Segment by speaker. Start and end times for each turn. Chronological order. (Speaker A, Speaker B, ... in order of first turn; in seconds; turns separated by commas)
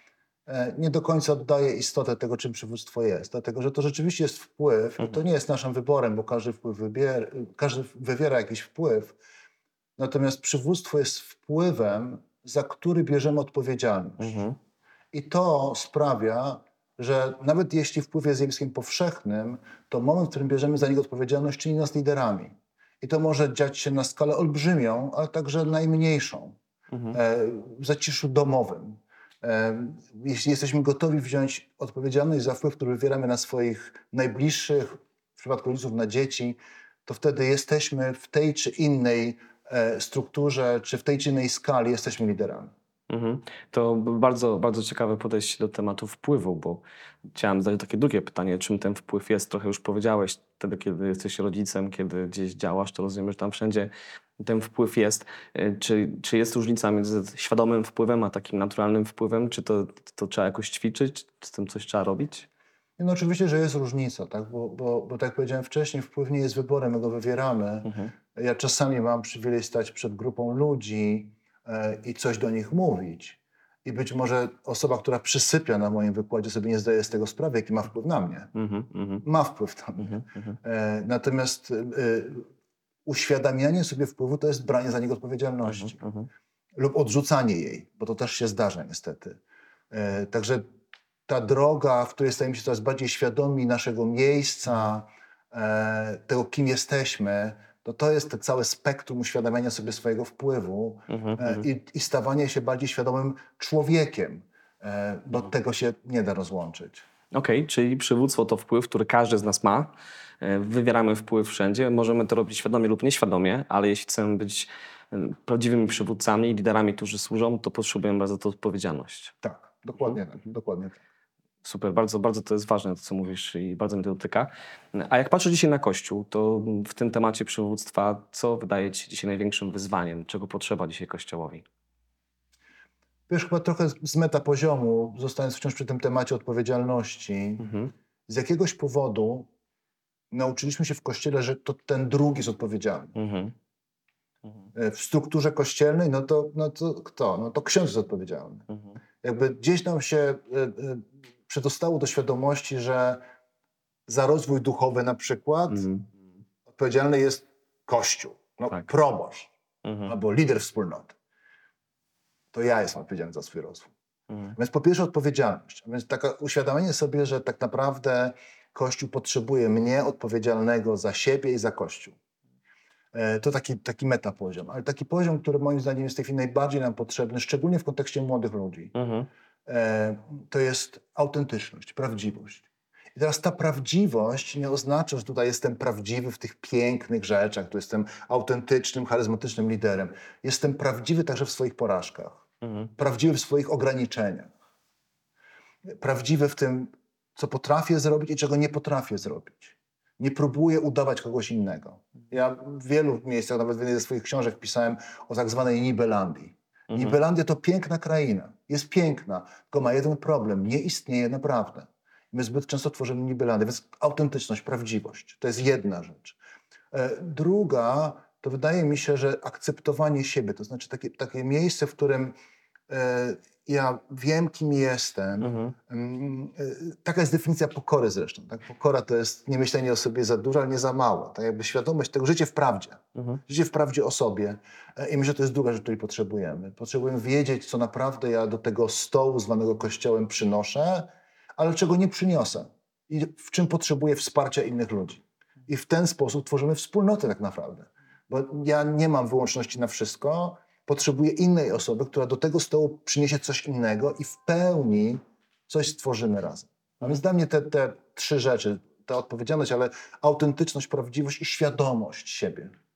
Speaker A: 0.5-9.2, Speaker A: 10.0-14.4, Speaker B: 14.2-14.6, Speaker A: 15.1-26.6, Speaker B: 26.9-27.2, Speaker A: 27.1-42.7, Speaker B: 43.1-62.5, Speaker A: 63.0-78.5, Speaker B: 67.8-68.1, Speaker B: 78.5-79.2, Speaker A: 79.2-82.5, Speaker B: 80.0-80.6, Speaker A: 83.0-86.0, Speaker B: 85.7-86.3, Speaker A: 86.8-89.4, Speaker A: 89.9-90.7, Speaker A: 91.3-107.0, Speaker B: 101.1-101.7, Speaker B: 107.3-119.3, Speaker A: 119.4-121.0, Speaker B: 121.6-131.7, Speaker A: 133.3-137.7, Speaker B: 137.6-137.9, Speaker A: 138.3-139.5, Speaker A: 140.3-143.2, Speaker B: 143.2-143.5, Speaker A: 144.8-148.7, Speaker A: 149.2-153.2, Speaker A: 154.1-155.9, Speaker B: 155.7-156.1, Speaker A: 156.7-159.5, Speaker B: 159.8-160.1, Speaker A: 160.0-161.2, Speaker A: 162.5-163.9, Speaker A: 164.5-172.2, Speaker A: 173.1-178.9, Speaker B: 178.9-179.3, Speaker A: 179.7-192.4, Speaker B: 192.6-192.9, Speaker A: 193.0-194.5, Speaker A: 196.0-216.4, Speaker B: 206.9-207.2, Speaker A: 216.9-222.3, Speaker A: 222.9-262.7, Speaker B: 225.4-225.8, Speaker B: 233.2-233.4